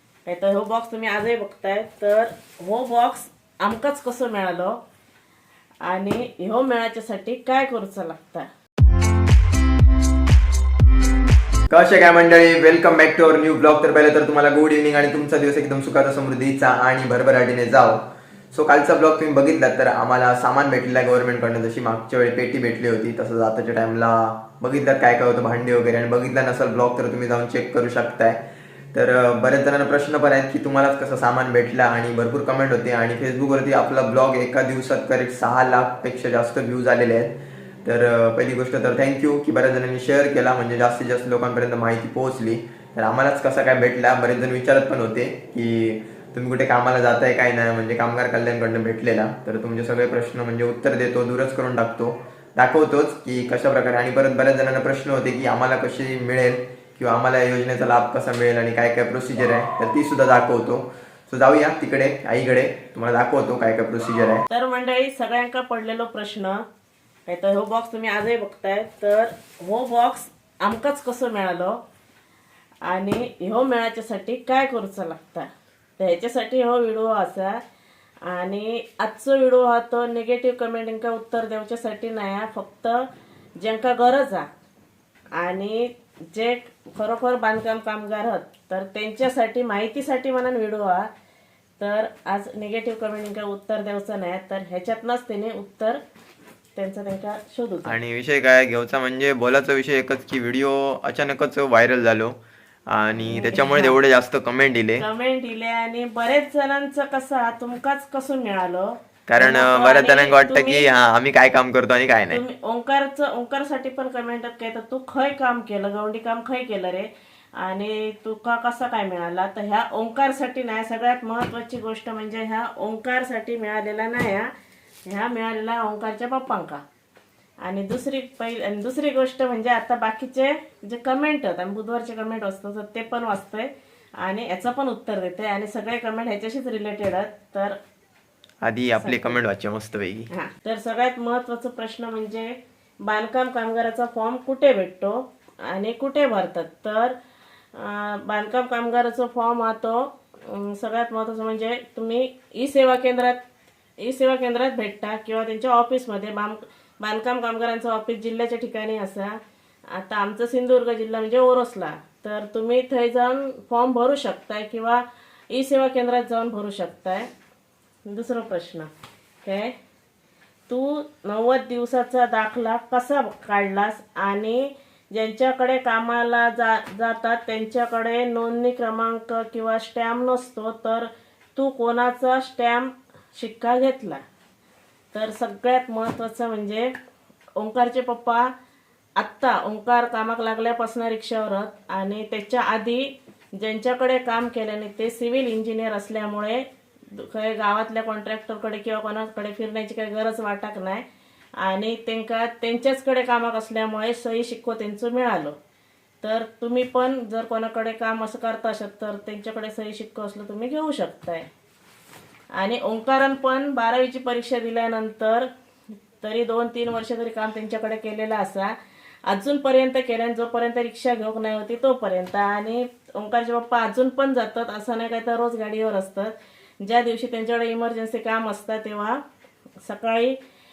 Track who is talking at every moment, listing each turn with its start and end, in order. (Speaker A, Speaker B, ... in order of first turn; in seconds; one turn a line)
Speaker A: 0.3-4.8
Speaker A: 5.8-8.5
Speaker B: 11.7-64.4
Speaker A: 64.5-66.6
Speaker A: 67.3-71.8
Speaker A: 72.8-75.5
Speaker A: 76.0-77.6
Speaker A: 78.2-83.0
Speaker A: 83.6-84.5
Speaker A: 85.3-91.1
Speaker A: 91.8-96.0
Speaker A: 96.8-97.9
Speaker B: 97.8-102.4
Speaker B: 102.9-105.0
Speaker A: 103.2-104.0
Speaker A: 105.0-110.9
Speaker B: 109.3-112.4
Speaker A: 112.3-124.5
Speaker A: 125.1-126.8
Speaker A: 127.6-133.7
Speaker A: 134.2-137.8
Speaker B: 138.6-140.3
Speaker A: 139.0-139.4
Speaker A: 140.3-142.5
Speaker A: 143.0-147.2
Speaker A: 147.7-153.4
Speaker A: 154.0-159.4
Speaker A: 159.9-167.3
Speaker A: 168.1-168.9
Speaker A: 169.4-169.7
Speaker A: 170.7-184.2
Speaker A: 185.1-186.9
Speaker A: 187.6-188.5
Speaker A: 189.2-201.0
Speaker A: 201.6-205.6
Speaker A: 206.2-211.5
Speaker A: 212.6-215.5
Speaker A: 216.2-218.7
Speaker A: 219.3-229.2
Speaker A: 229.8-230.4